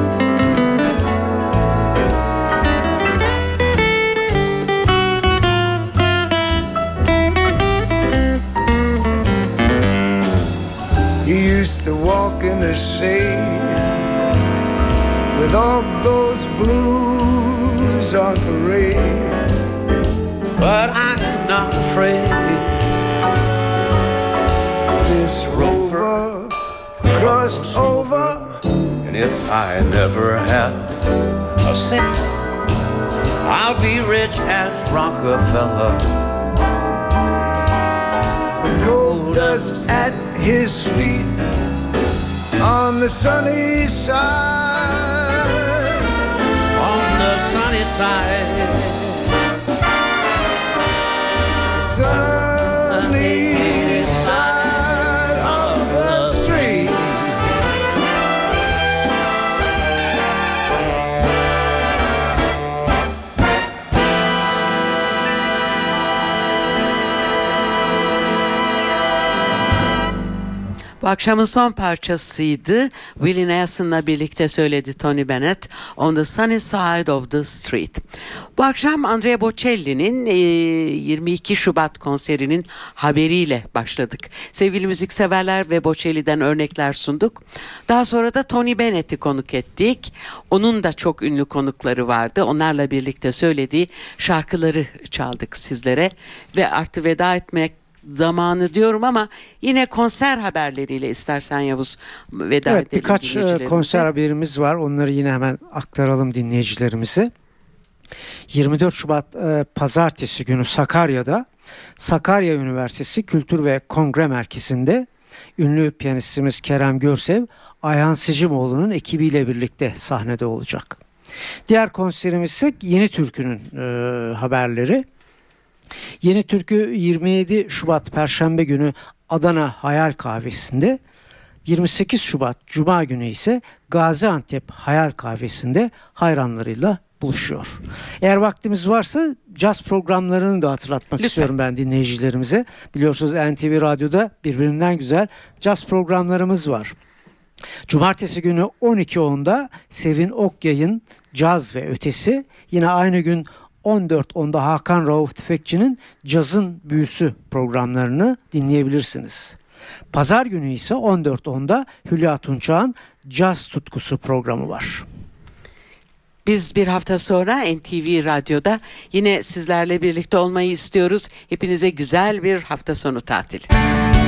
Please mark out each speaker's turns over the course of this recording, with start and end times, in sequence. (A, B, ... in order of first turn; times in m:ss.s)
0:11.2-0:13.9 A
0:15.3-0:19.4 A
0:20.6-0:22.9 B
0:24.9-0:26.6 A
0:25.5-0:26.2 B
0:27.0-0:28.5 B
0:27.1-0:28.6 A
0:29.0-0:30.8 B
0:31.6-0:32.2 B
0:33.4-0:36.1 B
0:38.6-0:41.4 A
0:38.8-0:40.2 B
0:42.6-0:46.0 A
0:46.7-0:49.3 B
0:51.8-0:57.3 B
0:51.8-0:57.0 A
1:11.0-1:18.0 C
1:18.6-1:44.1 C
1:42.6-1:47.3 D
1:48.5-1:51.5 D
1:52.0-2:01.0 D
2:01.7-2:05.1 D
2:06.2-2:11.0 D
2:11.7-2:27.0 D
2:21.2-2:21.5 C
2:27.9-2:39.6 D
2:40.1-2:45.0 D
2:46.5-2:53.7 C